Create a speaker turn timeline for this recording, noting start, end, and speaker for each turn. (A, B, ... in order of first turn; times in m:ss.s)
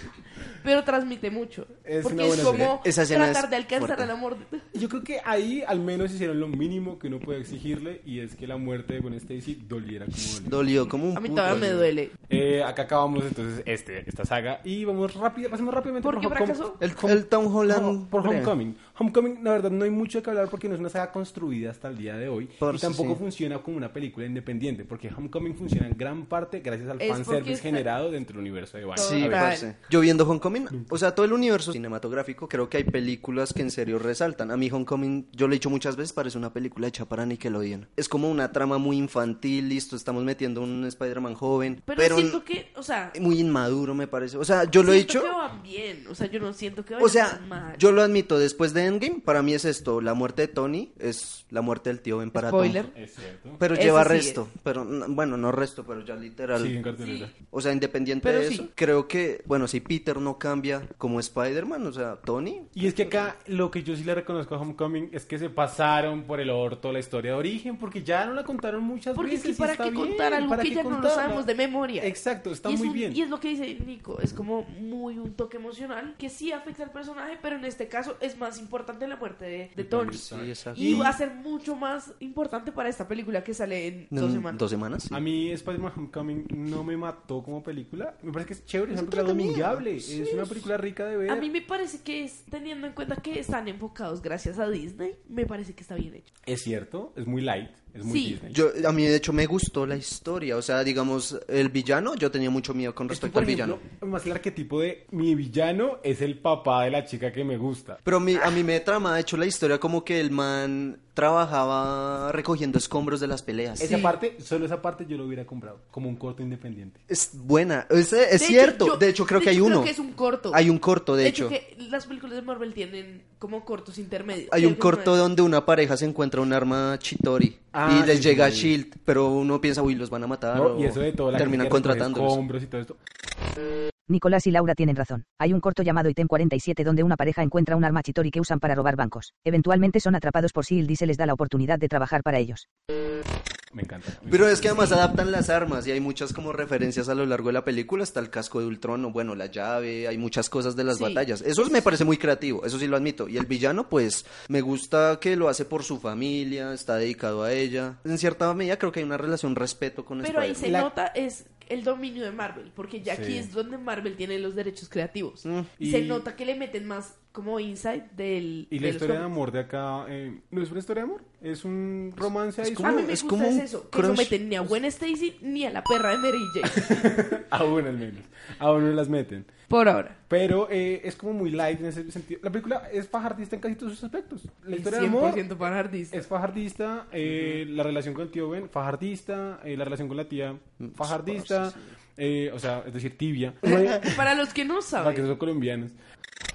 0:00.6-0:04.7 A
0:01.8-0:02.8 B
0:02.5-0:04.1 C
0:04.7-0:10.8 B
0:10.4-0:11.9 C
0:11.1-0:12.1 A
0:11.5-0:29.6 B
0:16.0-0:16.8 A
0:16.8-0:18.5 C
0:22.6-0:23.2 C
0:27.0-0:27.8 A
0:29.0-0:29.7 A
0:29.0-0:42.4 C
0:41.9-0:43.2 A
0:43.1-0:45.4 C
0:44.8-0:47.8 A
0:47.0-0:52.8 C
0:52.3-0:52.9 A
0:52.9-0:53.6 B
0:53.6-0:56.8 C
0:53.7-0:54.4 A
0:56.6-0:57.3 B
0:57.0-0:57.3 A
0:57.4-1:03.3 C
0:58.2-0:58.7 A
1:02.8-1:11.5 B
1:09.2-1:24.6 A
1:12.0-1:13.2 B
1:19.8-1:21.2 B
1:20.2-1:21.1 C
1:24.1-1:25.2 C
1:25.1-1:31.5 B
1:28.9-1:30.4 C
1:31.3-1:36.3 A
1:36.5-1:38.6 B
1:38.0-1:38.4 A
1:38.5-1:43.8 C
1:43.1-1:48.0 B
1:48.0-1:54.0 C
1:53.8-1:57.0 B
1:53.8-1:54.1 A
1:57.1-1:59.9 C
1:58.4-2:00.6 A
2:00.5-2:01.6 C
2:01.2-2:05.2 A
2:04.5-2:12.4 C
2:07.7-2:08.7 B
2:10.5-2:13.0 B
2:14.1-2:22.7 D
2:23.7-2:25.0 B
2:24.3-2:40.8 C
2:30.9-2:32.0 A
2:40.2-2:49.3 A
2:40.6-2:40.9 B
2:43.1-2:43.5 B
2:45.4-2:45.8 C
2:45.8-2:46.2 B
2:48.7-2:53.1 B
2:52.6-2:54.7 C
2:52.8-2:57.0 A
2:56.7-2:59.5 B
2:59.7-3:00.2 A
3:00.3-3:05.6 B
3:04.7-3:06.2 A
3:06.1-3:14.3 B
3:07.2-3:07.6 C
3:10.8-3:11.9 C
3:13.6-3:15.3 A
3:15.0-3:16.0 B